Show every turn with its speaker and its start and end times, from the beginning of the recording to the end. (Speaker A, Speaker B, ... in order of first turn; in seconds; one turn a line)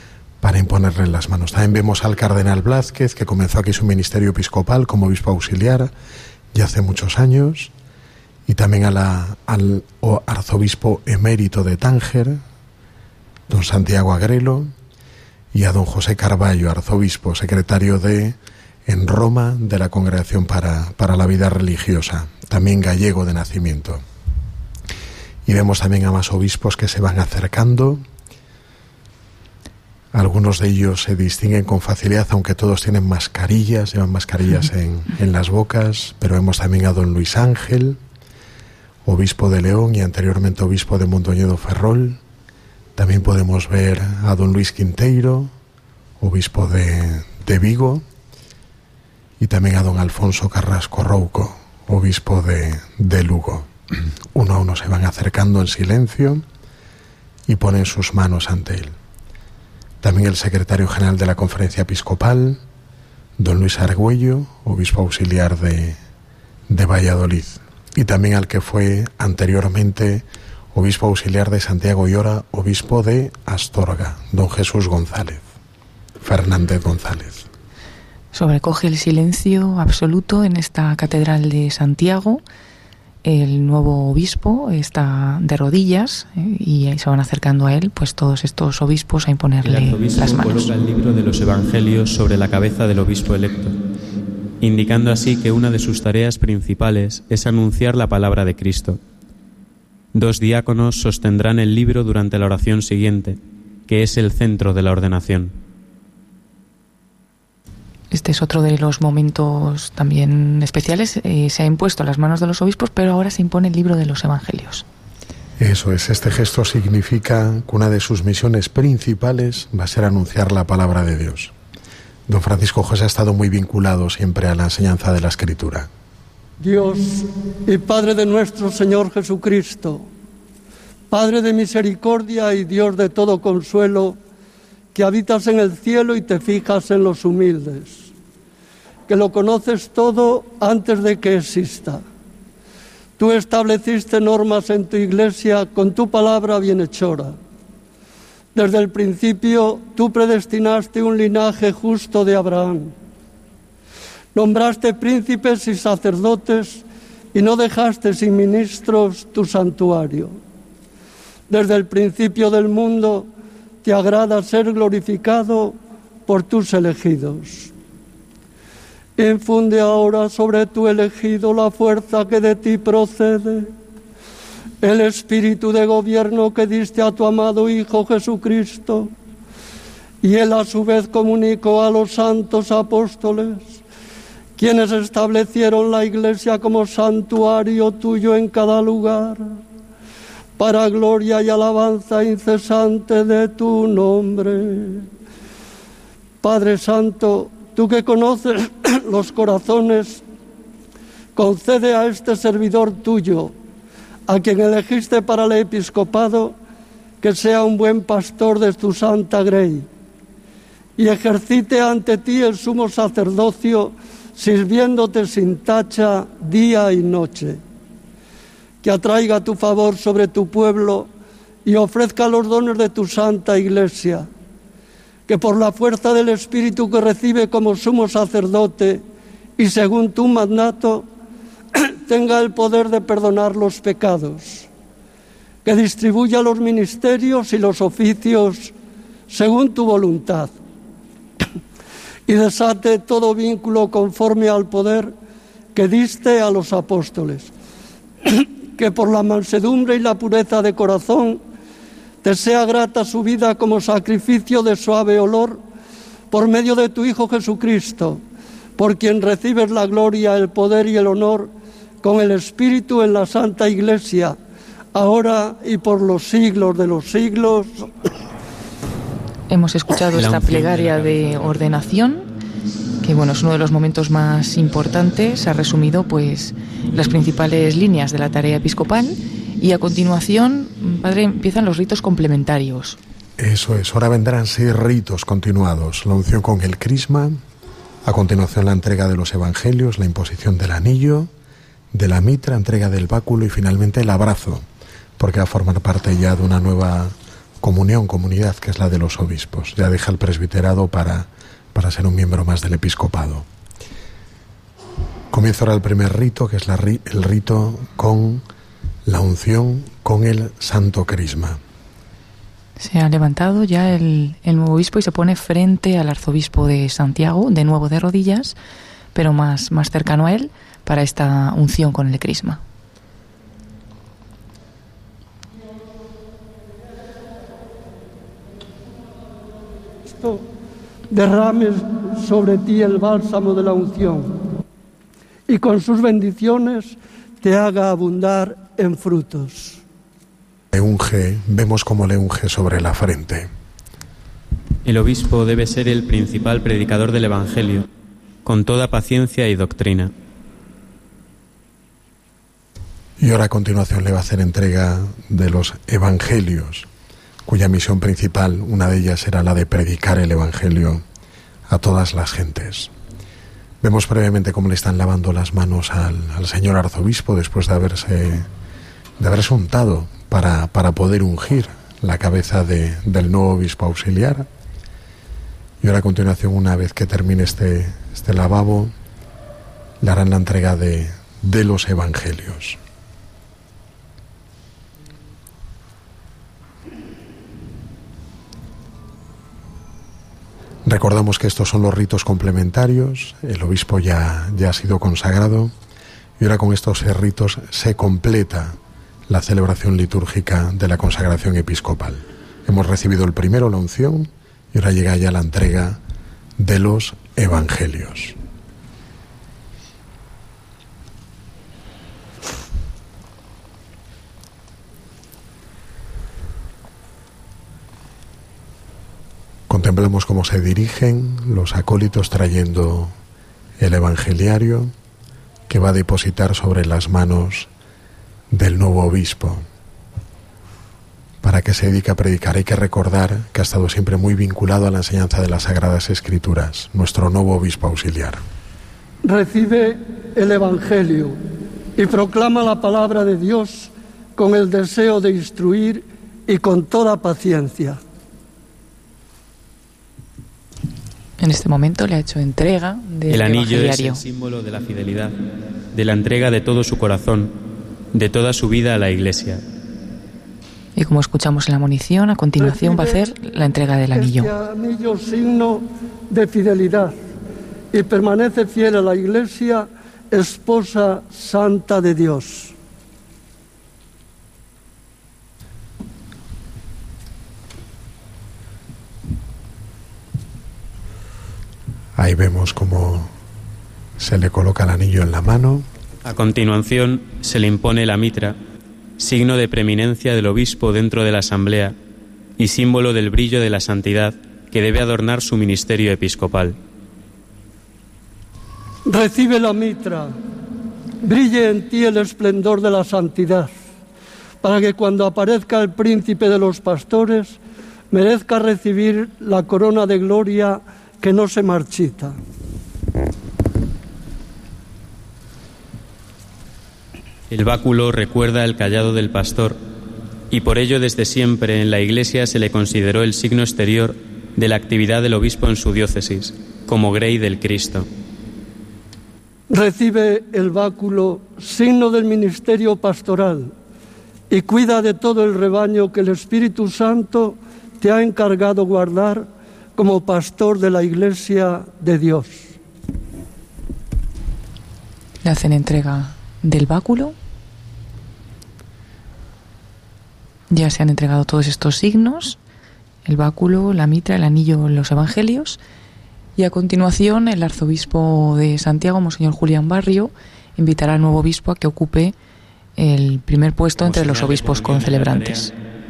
Speaker A: 0.4-5.9
Speaker A: 6.5-7.7
Speaker A: 8.5-12.4
Speaker A: 13.5-14.7
Speaker A: 15.5-18.4
Speaker A: 18.9-24.0
Speaker A: 25.5-28.0
Speaker A: 30.1-38.0
Speaker A: 39.0-42.2
Speaker A: 43.0-45.5
Speaker A: 46.2-48.0
Speaker A: 49.4-53.7
Speaker A: 54.3-56.4
Speaker A: 57.5-58.9
Speaker A: 60.0-62.6
Speaker A: 63.4-66.0
Speaker A: 66.7-75.4
Speaker A: 76.2-77.5
Speaker B: 78.3-82.4
Speaker B: 83.2-90.7
Speaker C: 89.6-93.7
Speaker C: 94.6-99.0
Speaker C: 100.1-105.5
Speaker B: 108.1-114.8
Speaker A: 115.6-121.5
Speaker A: 122.3-125.9
Speaker D: 126.6-130.1
Speaker D: 131.1-134.2
Speaker D: 134.9-138.1
Speaker D: 139.1-142.0
Speaker D: 143.2-147.4
Speaker D: 148.5-152.9
Speaker D: 154.3-160.4
Speaker D: 161.5-163.3
Speaker D: 163.8-167.7
Speaker D: 169.2-173.7
Speaker D: 174.8-179.1
Speaker D: 180.2-183.8
Speaker D: 184.6-189.6
Speaker D: 190.6-195.1
Speaker D: 196.4-200.2
Speaker D: 201.3-203.5
Speaker D: 204.3-206.5
Speaker D: 207.2-209.9
Speaker D: 211.0-217.6
Speaker D: 218.8-221.1
Speaker D: 221.6-224.3
Speaker D: 225.3-229.0
Speaker D: 229.6-231.1
Speaker D: 231.7-234.7
Speaker D: 235.6-238.7
Speaker D: 239.3-240.5
Speaker D: 242.3-245.1
Speaker D: 245.7-247.5
Speaker D: 248.2-251.4
Speaker D: 252.2-255.6
Speaker D: 256.3-258.2
Speaker D: 258.8-261.5
Speaker D: 262.0-264.4
Speaker D: 264.9-268.1
Speaker B: 269.5-272.2
Speaker C: 270.1-271.7
Speaker B: 273.0-283.0
Speaker A: 283.4-287.4
Speaker A: 288.0-291.3
Speaker A: 291.9-294.6
Speaker A: 295.2-303.4
Speaker A: 305.3-308.4
Speaker A: 309.1-311.6
Speaker B: 312.8-318.6
Speaker B: 319.1-322.6
Speaker D: 330.1-330.4
Speaker D: 331.1-334.3
Speaker D: 335.5-339.8
Speaker A: 340.7-343.5
Speaker C: 344.8-347.8
Speaker C: 348.4-350.1
Speaker A: 353.2-356.9
Speaker A: 357.4-361.0
Speaker A: 361.7-362.9
Speaker A: 363.8-368.5
Speaker A: 369.2-374.5
Speaker A: 375.8-378.9
Speaker A: 380.0-382.8
Speaker A: 390.8-395.7
Speaker A: 396.4-398.8
Speaker A: 399.3-406.0
Speaker A: 406.6-408.4
Speaker A: 419.7-423.1
Speaker A: 423.8-424.9
Speaker A: 425.7-427.7
Speaker A: 428.5-429.6
Speaker A: 431.4-438.4
Speaker D: 439.2-441.4
Speaker D: 441.9-448.0
Speaker B: 451.4-454.2
Speaker C: 453.3-455.3
Speaker C: 455.9-457.5
Speaker C: 458.1-459.6
Speaker B: 460.9-464.5
Speaker D: 462.6-463.3
Speaker D: 464.1-467.1
Speaker D: 467.9-472.7
Speaker A: 482.2-483.3
Speaker A: 484.2-485.9
Speaker C: 486.2-488.6
Speaker C: 489.2-491.9
Speaker C: 492.6-496.8
Speaker D: 499.1-500.4
Speaker D: 501.2-503.7
Speaker D: 504.6-507.6
Speaker D: 508.1-512.4
Speaker C: 517.5-519.8
Speaker C: 520.5-528.1
Speaker D: 529.7-533.7
Speaker D: 534.5-542.7
Speaker B: 545.4-547.4
Speaker B: 550.7-552.6
Speaker B: 553.2-555.8
Speaker B: 556.6-562.3
Speaker B: 563.0-565.7
Speaker C: 563.9-565.7